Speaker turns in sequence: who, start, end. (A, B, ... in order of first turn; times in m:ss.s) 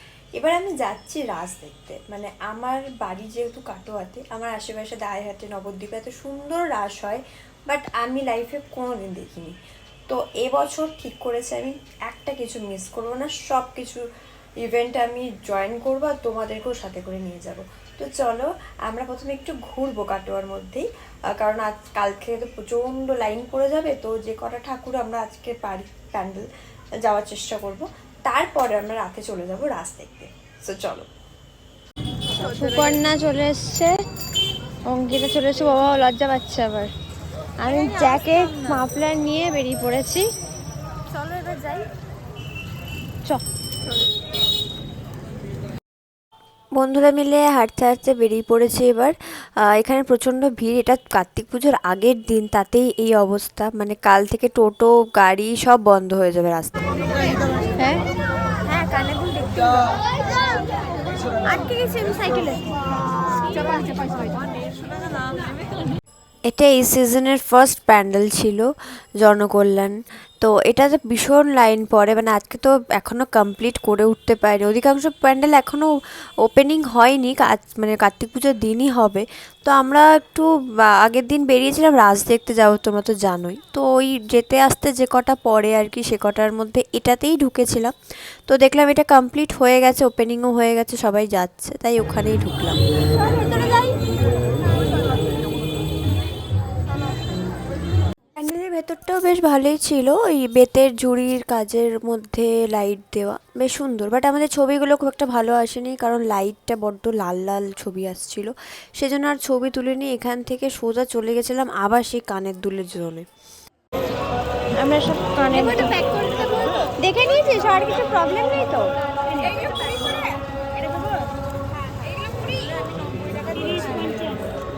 0:00.4-0:09.6 A
0:10.1-0:14.0 A
0:14.6-0:26.5 A
0:27.0-0:31.1 A
0:32.4-0:34.0 B
0:34.9-0:36.9 B
0:37.6-0:40.2 B
0:46.8-0:56.8 A
0:57.8-0:58.0 B
0:58.7-0:59.9 B
0:58.8-0:59.5 A
1:01.5-1:02.6 B
1:03.5-1:04.2 B
1:06.5-1:08.7 A
1:09.2-1:15.9 A
1:16.4-1:27.9 A
1:28.5-1:32.8 A
1:38.4-1:53.2 A
1:54.8-1:56.1 B
1:55.5-1:58.6 A
1:57.0-2:00.0 B
2:03.6-2:04.3 B